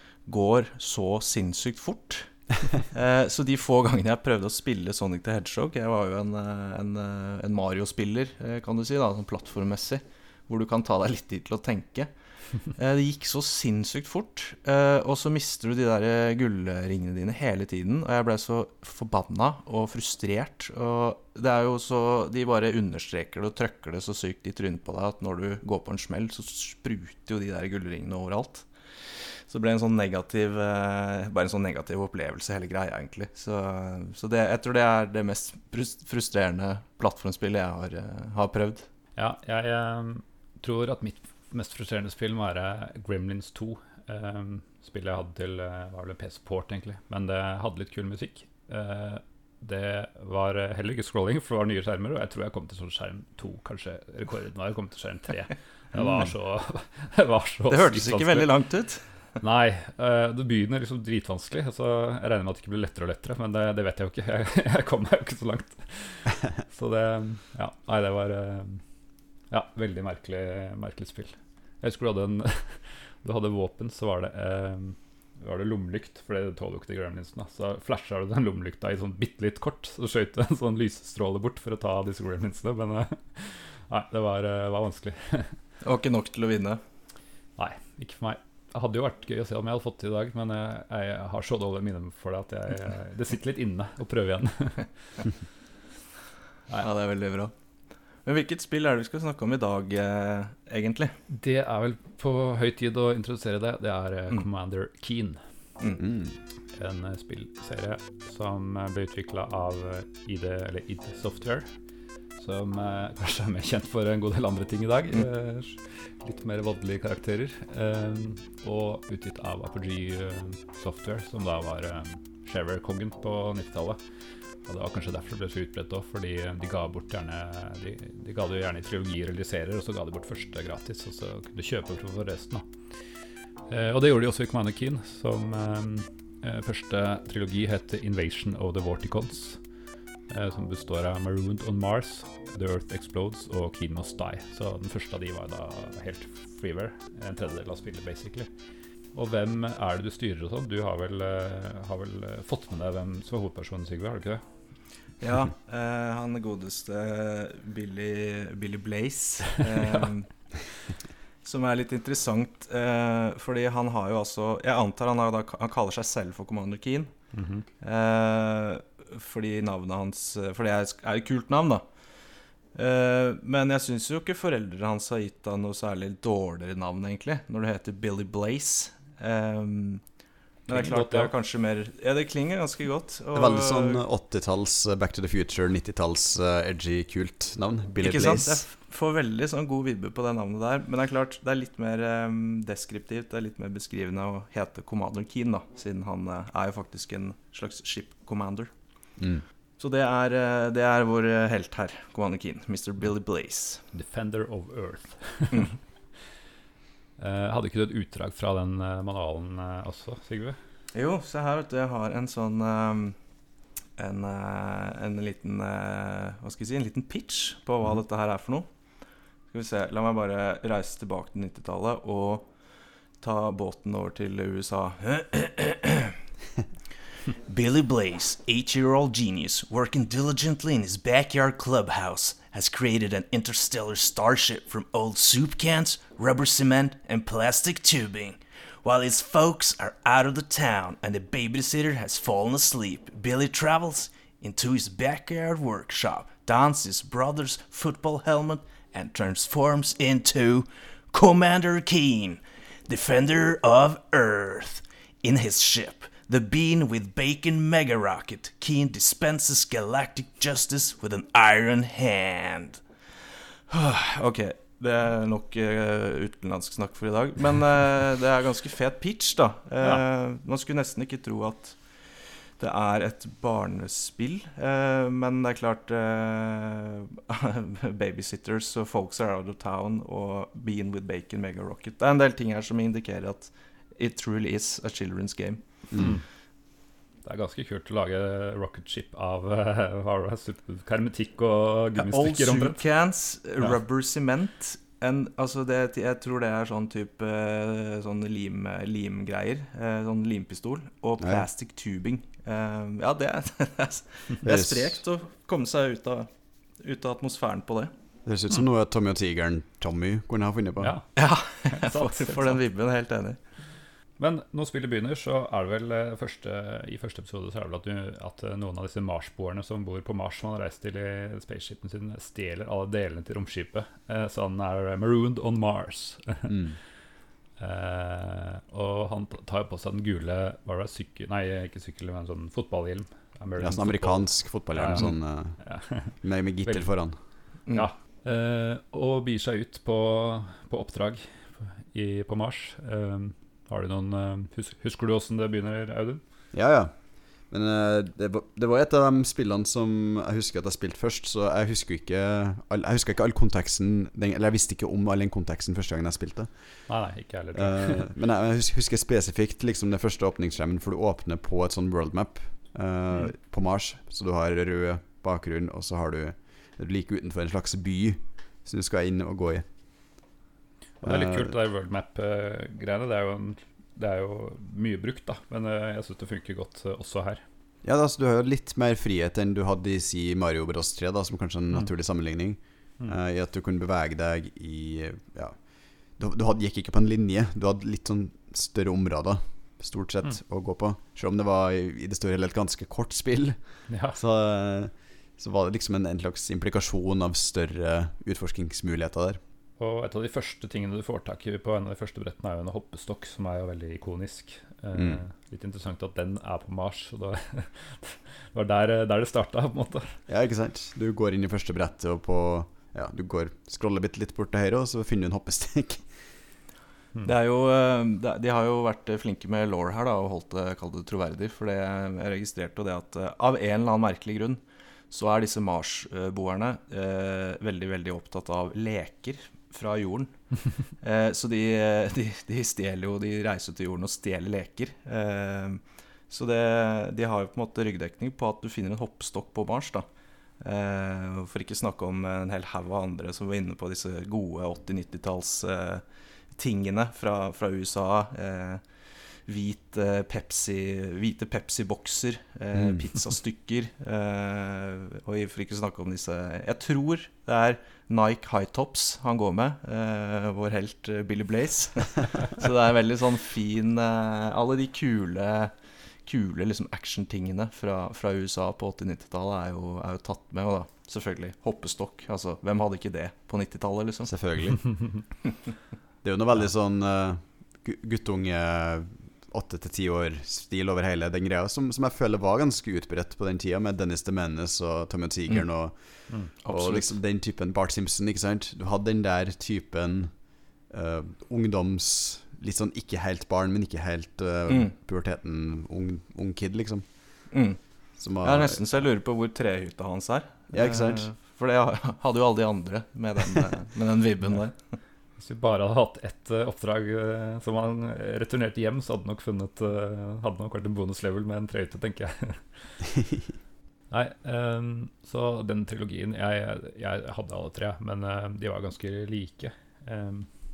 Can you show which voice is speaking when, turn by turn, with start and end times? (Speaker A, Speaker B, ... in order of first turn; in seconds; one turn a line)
Speaker A: 0.2-38.9
Speaker B: 39.1-58.5
Speaker A: 57.7-59.0
Speaker B: 59.4-68.8
Speaker B: 69.5-85.6
Speaker A: 85.8-86.8
Speaker B: 87.6-94.9
Speaker A: 96.8-97.5
Speaker A: 98.2-101.2
Speaker B: 101.3-105.4
Speaker C: 106.0-106.3
Speaker B: 106.7-111.7
Speaker B: 112.4-124.0
Speaker B: 124.7-132.7
Speaker B: 133.7-139.6
Speaker B: 140.3-148.5
Speaker B: 149.1-154.4
Speaker A: 155.2-160.3
Speaker B: 159.8-160.1
Speaker A: 161.4-167.1
Speaker B: 167.3-167.6
Speaker A: 167.8-171.8
Speaker A: 172.8-180.0
Speaker A: 180.7-184.0
Speaker B: 180.7-181.3
Speaker C: 183.3-188.6
Speaker A: 188.0-198.7
Speaker C: 199.2-199.4
Speaker A: 199.8-203.8
Speaker B: 203.9-205.7
Speaker B: 207.2-210.6
Speaker A: 210.9-213.2
Speaker A: 214.0-218.7
Speaker A: 219.5-222.5
Speaker A: 223.2-226.2
Speaker A: 227.4-262.8
Speaker A: 263.7-285.6
Speaker C: 285.9-286.2
Speaker B: 285.9-286.2
Speaker B: 287.2-292.8
Speaker A: 292.0-306.3
Speaker C: 301.2-301.5
Speaker C: 304.4-305.0
Speaker A: 306.8-307.9
Speaker C: 308.2-310.9
Speaker B: 310.8-311.1
Speaker A: 311.1-313.4
Speaker B: 311.7-312.6
Speaker B: 314.2-326.5
Speaker C: 326.5-326.8
Speaker B: 327.6-336.9
Speaker C: 333.6-337.1
Speaker B: 337.7-346.2
Speaker C: 346.5-356.8
Speaker B: 356.9-358.1
Speaker C: 357.5-369.7
Speaker B: 371.0-377.4
Speaker C: 371.0-371.5
Speaker C: 377.8-399.4
Speaker B: 393.9-394.2
Speaker B: 399.8-410.2
Speaker C: 404.9-405.2
Speaker C: 410.3-416.1
Speaker A: 417.2-440.1
Speaker A: 440.6-465.7
Speaker C: 452.7-453.0
Speaker A: 466.2-474.3
Speaker C: 474.2-475.0
Speaker C: 476.2-490.4
Speaker A: 486.6-487.1
Speaker C: 490.9-497.0
Speaker A: 497.5-497.8
Speaker C: 498.2-498.8
Speaker A: 498.4-505.0
Speaker C: 500.7-501.3
Speaker B: 505.4-513.0
Speaker B: 514.1-520.5